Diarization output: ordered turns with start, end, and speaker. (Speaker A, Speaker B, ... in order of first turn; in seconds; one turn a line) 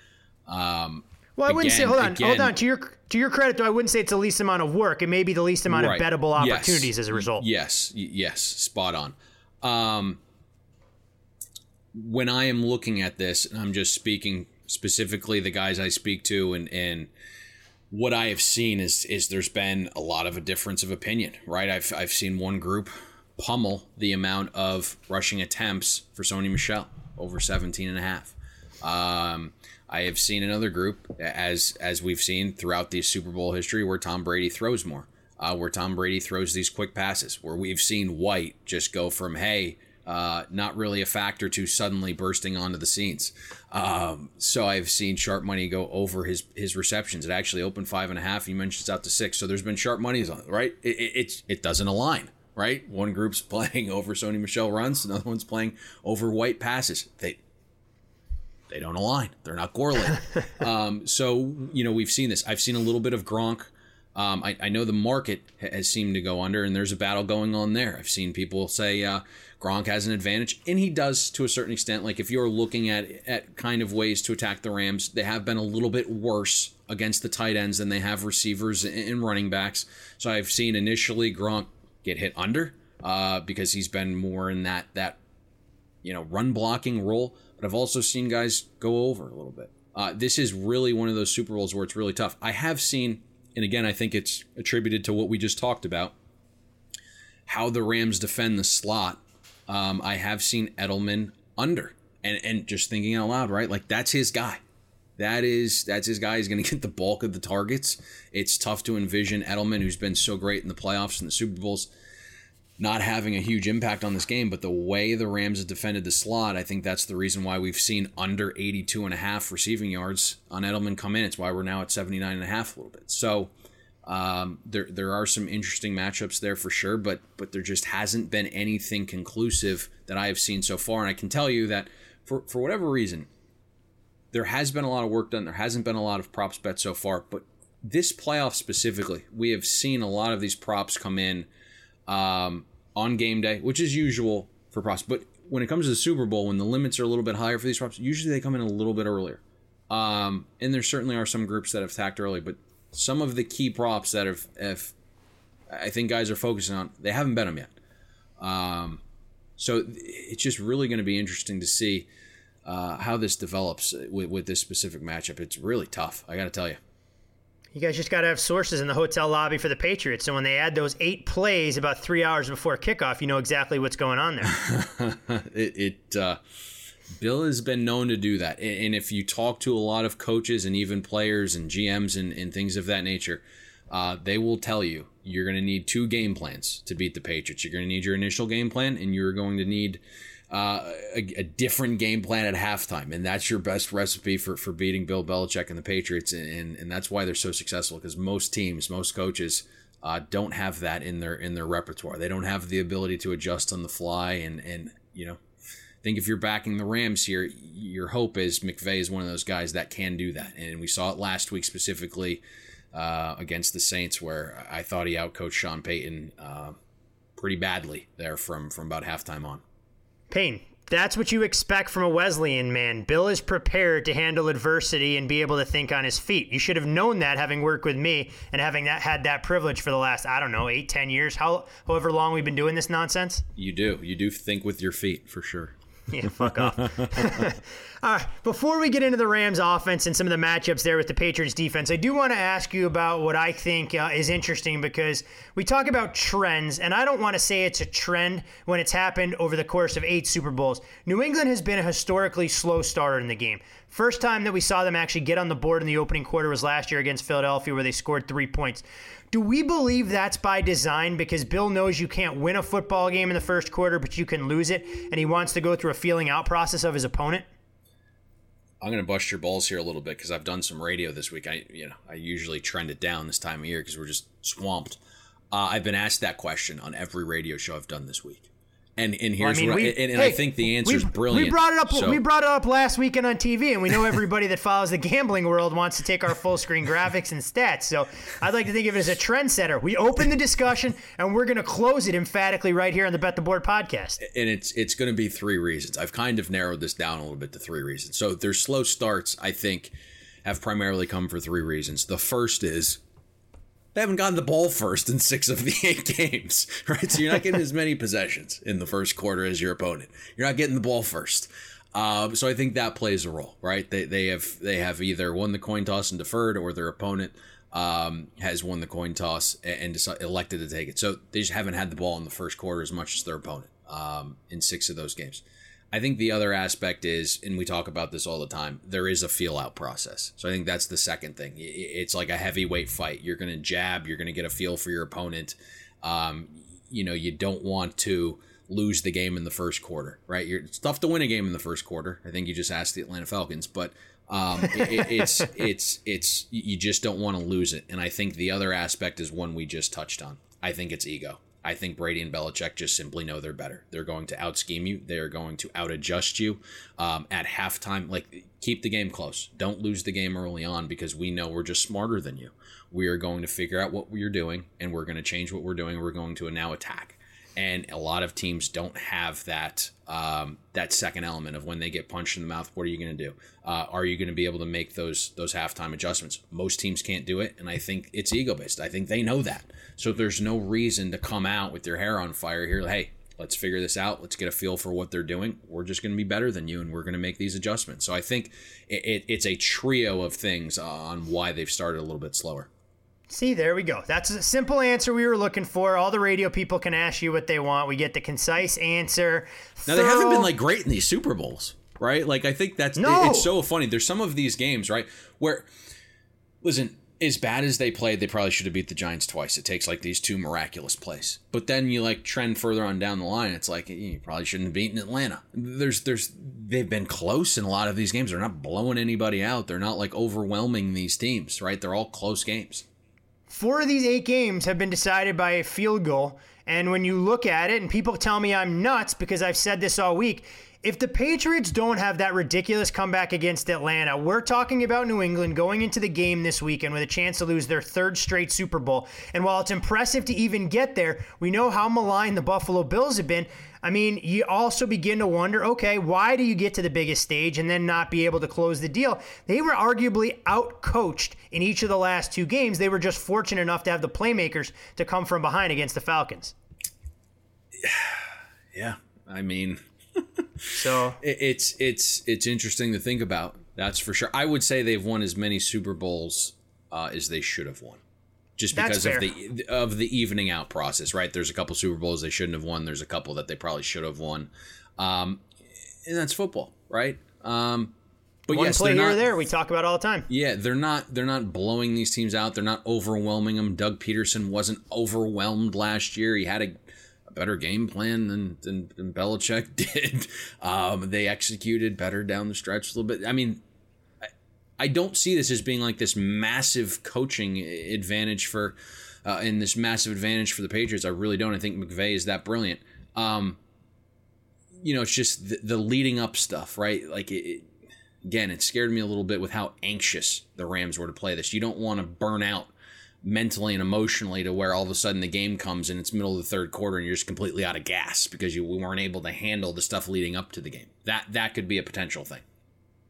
Speaker A: 0.5-2.6
Speaker B: 1.4-7.5
Speaker A: 5.7-10.2
Speaker A: 11.9-17.1
Speaker A: 17.9-57.4
Speaker A: 58.7-85.2
Speaker A: 86.0-96.2
Speaker A: 97.5-104.6
Speaker A: 105.2-111.9
Speaker A: 112.8-123.5
Speaker A: 124.1-133.3
Speaker A: 134.3-141.5
Speaker A: 142.1-154.9
Speaker A: 155.7-157.7
Speaker A: 158.4-159.0
Speaker A: 159.6-162.1
Speaker A: 162.7-166.8
Speaker B: 167.7-174.5
Speaker A: 174.5-176.4
Speaker A: 177.2-205.4
Speaker A: 206.0-216.8
Speaker A: 217.4-219.6
Speaker B: 220.3-233.5
Speaker A: 233.6-235.7
Speaker B: 236.1-267.5
Speaker A: 236.2-237.5
Speaker A: 268.8-275.0
Speaker A: 275.5-282.2
Speaker B: 279.4-294.2
Speaker A: 294.2-303.0
Speaker A: 303.9-392.7
Speaker B: 393.3-400.5
Speaker A: 399.9-405.7
Speaker B: 403.0-403.5
Speaker A: 406.6-422.9
Speaker B: 423.5-456.6
Speaker A: 457.8-468.0
Speaker B: 460.7-461.2
Speaker A: 468.6-475.4
Speaker B: 468.7-469.3
Speaker A: 476.1-477.9
Speaker A: 478.5-479.2
Speaker B: 478.5-480.3
Speaker A: 480.3-493.6
Speaker A: 494.8-503.6
Speaker A: 504.8-507.7
Speaker A: 508.2-512.7
Speaker A: 513.2-522.4